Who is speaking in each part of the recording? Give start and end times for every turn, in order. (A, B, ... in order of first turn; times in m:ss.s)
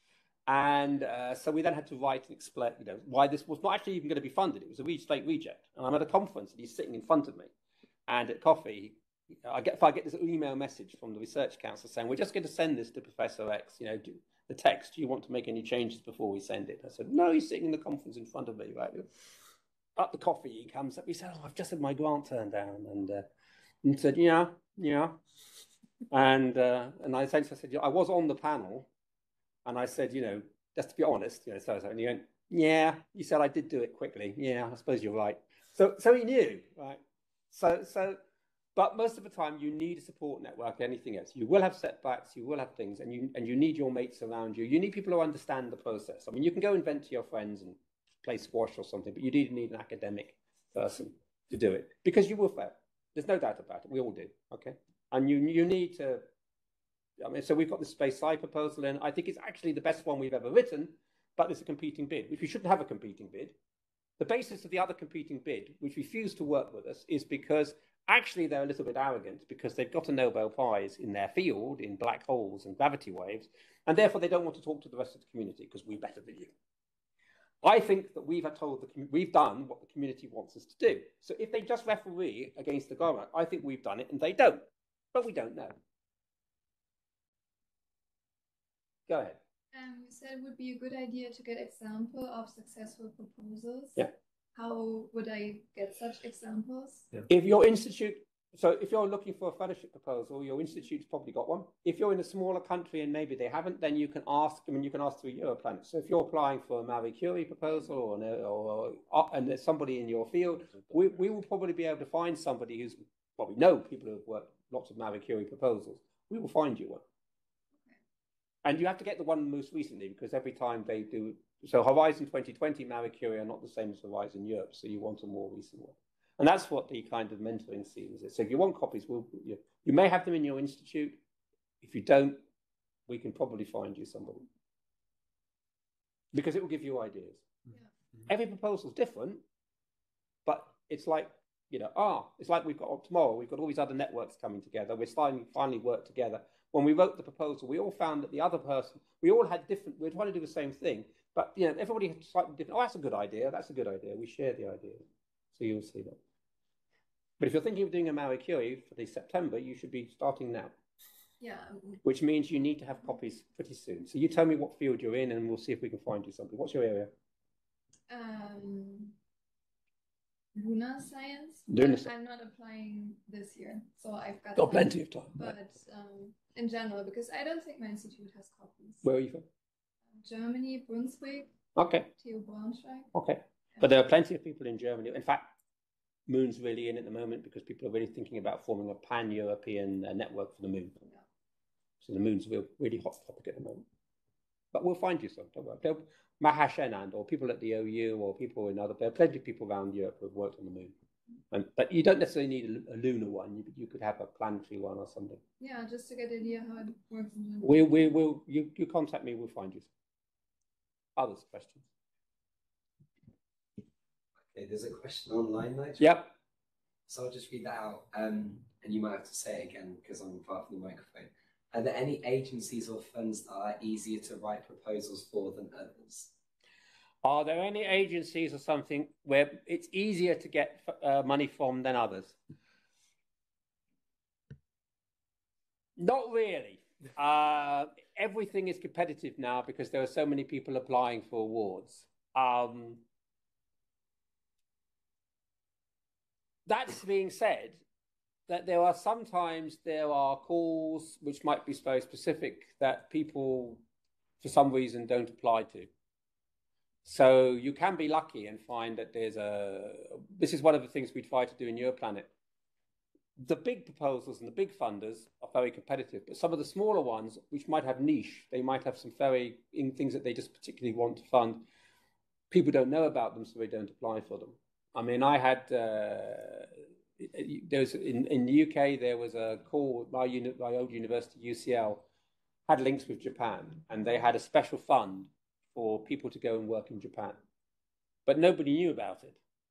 0:00.5-0:07.5 A
0:08.1-0:19.1 A
0:20.0-0:23.2 A
0:23.8-0:25.2 A
0:26.1-0:28.9 A
0:29.6-0:37.0 A
0:37.5-0:38.2 A
0:38.8-0:56.3 A
0:57.2-1:03.6 A
1:04.2-1:16.5 A
1:17.6-1:25.8 A
1:29.1-1:29.4 A
1:29.7-1:34.0 B
1:34.6-1:37.1 B
1:37.3-1:57.0 A
1:58.6-2:11.2 A
2:11.8-2:12.4 A
2:13.1-2:14.5 A
2:16.3-2:17.5 A
2:18.3-2:19.4 A
2:20.4-2:36.2 A
2:37.4-2:40.7 A
2:41.4-2:42.0 B
2:42.0-2:47.1 A
2:48.1-2:49.1 B
2:50.6-2:59.0 B
2:51.7-2:52.1 A
2:54.6-2:55.5 A
2:59.0-2:59.4 A
3:00.1-3:01.5 B
3:01.8-3:02.1 A
3:02.2-3:03.1 B
3:03.1-3:05.5 A
3:06.3-3:11.0 A
3:12.0-3:13.8 A
3:14.7-3:20.9 A
3:21.5-3:25.4 A
3:25.6-3:27.8 B
3:27.6-3:29.9 A
3:31.2-3:31.9 A
3:34.5-3:36.2 C
3:36.0-3:36.3 A
3:37.1-3:46.3 C
3:47.2-3:52.4 A
3:56.0-4:03.0 A
4:06.7-4:07.8 A
4:08.5-4:13.8 A
4:14.4-4:15.9 A
4:17.0-4:22.3 A
4:23.4-4:31.7 A
4:32.5-4:42.0 A
4:42.7-4:47.4 A
4:48.3-4:49.4 A